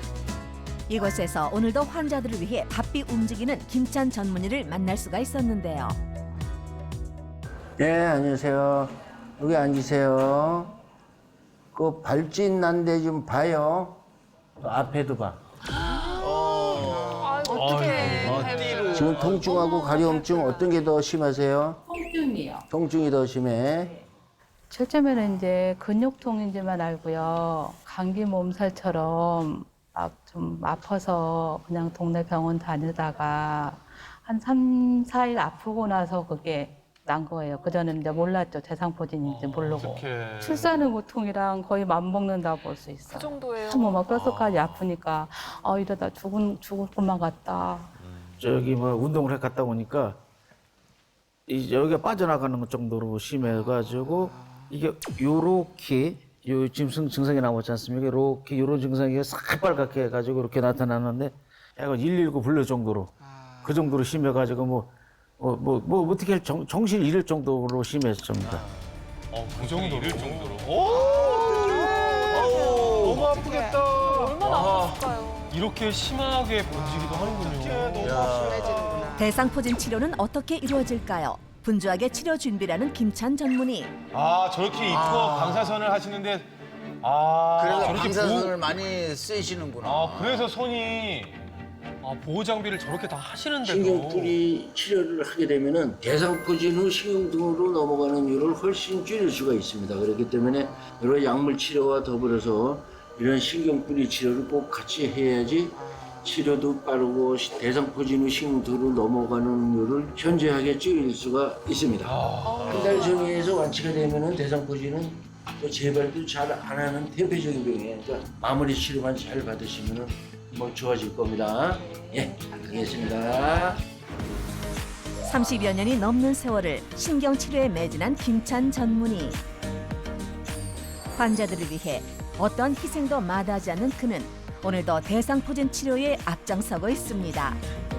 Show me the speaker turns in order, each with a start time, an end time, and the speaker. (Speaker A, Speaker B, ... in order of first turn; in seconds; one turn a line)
Speaker A: 0.9-6.0
Speaker B: 7.8-10.8
Speaker B: 11.7-14.0
Speaker B: 14.6-15.4
Speaker C: 16.1-19.5
Speaker D: 16.2-20.7
Speaker E: 17.5-18.7
Speaker B: 18.9-21.8
Speaker F: 21.9-22.7
Speaker B: 22.7-24.0
Speaker F: 24.7-47.9
Speaker E: 39.2-40.8
Speaker D: 43.1-44.1
Speaker G: 48.4-50.2
Speaker G: 51.5-68.6
Speaker E: 69.3-74.8
Speaker C: 69.8-70.3
Speaker C: 70.8-73.7
Speaker D: 71.6-75.6
Speaker C: 74.4-75.2
Speaker E: 75.5-79.1
Speaker C: 76.9-79.2
Speaker A: 79.1-83.9
Speaker E: 84.1-86.5
Speaker C: 84.8-85.8
Speaker E: 87.0-88.7
Speaker C: 87.6-90.5
Speaker E: 89.8-91.4
Speaker E: 92.0-94.4
Speaker B: 93.6-123.8
Speaker E: 112.0-112.9
Speaker D: 112.5-113.5
Speaker A: 125.3-129.4
Speaker A: 131.2-137.6